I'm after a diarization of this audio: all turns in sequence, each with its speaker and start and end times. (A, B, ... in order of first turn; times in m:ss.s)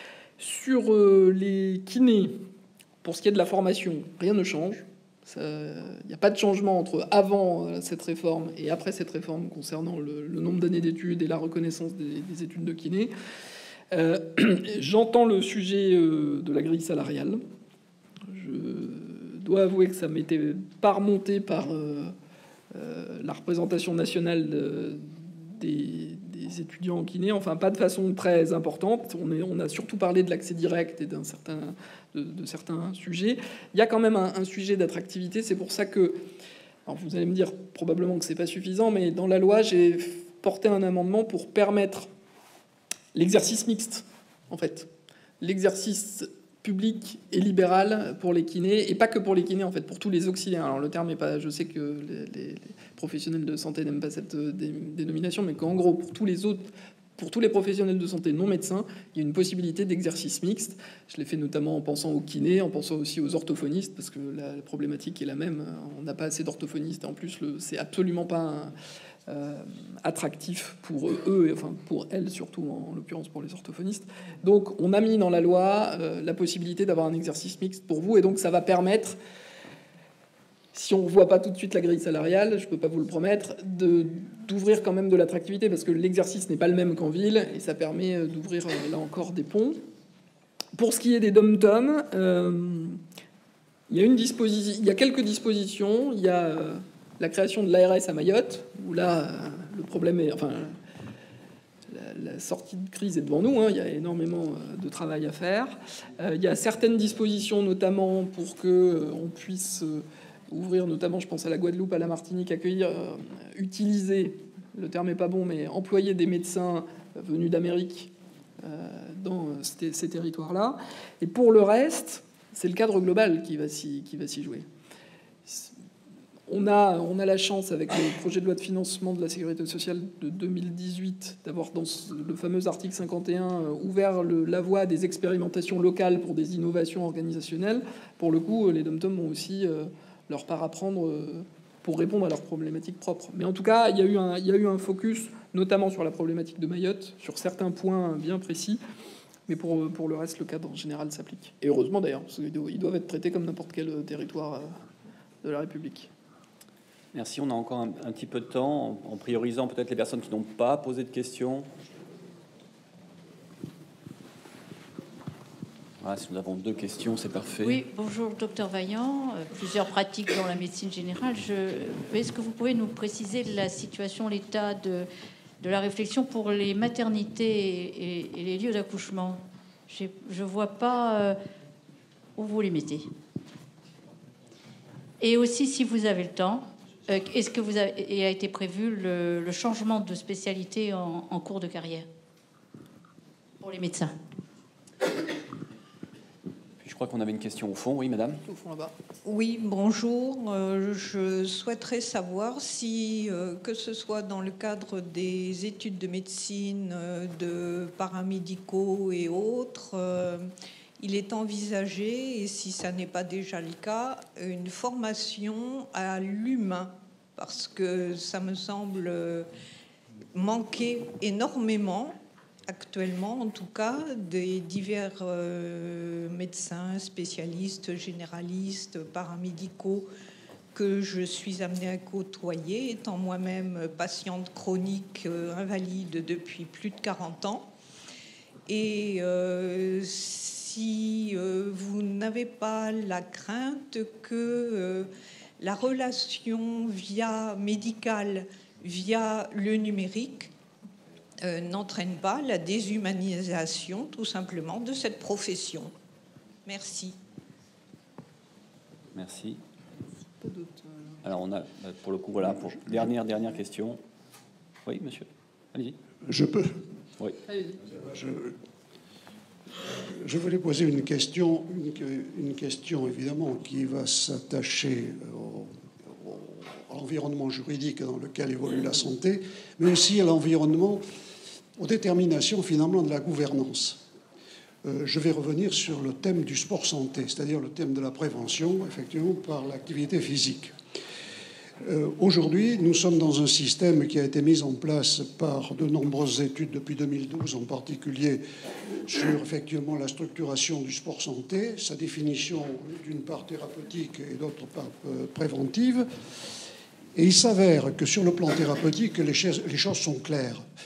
0:00.4-0:02.4 A
0:03.0-0:13.1 A
0:13.9-0:17.4 A
0:18.3-0:22.1 A
0:22.7-0:36.2 A
0:36.8-0:42.1 A
0:43.1-0:44.9 A
0:45.4-1:08.7 A
1:09.3-1:19.2 A
1:20.7-1:29.8 A
1:30.8-1:33.0 A
1:33.9-1:40.8 A
1:41.9-1:58.1 A
1:58.6-2:04.6 A
2:06.5-2:28.8 A
2:29.5-2:34.7 A
2:35.4-2:36.1 A
2:37.1-2:41.7 B
2:46.0-2:47.8 B
2:47.6-2:55.1 C
2:55.6-3:01.4 C
3:02.4-3:03.1 C
3:05.2-3:12.1 C
3:13.6-3:14.1 C
3:16.8-3:18.4 B
3:18.4-3:18.9 A
3:19.2-3:39.5 D
3:40.3-3:42.2 D
3:42.7-3:50.1 D
3:50.7-3:57.7 D
3:58.7-4:10.5 D
4:11.4-4:15.9 D
4:16.6-4:17.1 D
4:19.1-4:19.6 B
4:20.4-4:20.9 A
4:21.2-4:24.0 B
4:24.8-4:26.0 B
4:26.3-4:26.8 E
4:27.5-4:27.8 A
4:27.9-4:28.6 E
4:29.9-4:41.0 E
4:41.8-4:44.0 E
4:44.8-4:50.7 E
4:51.8-5:06.0 E
5:07.1-5:10.6 E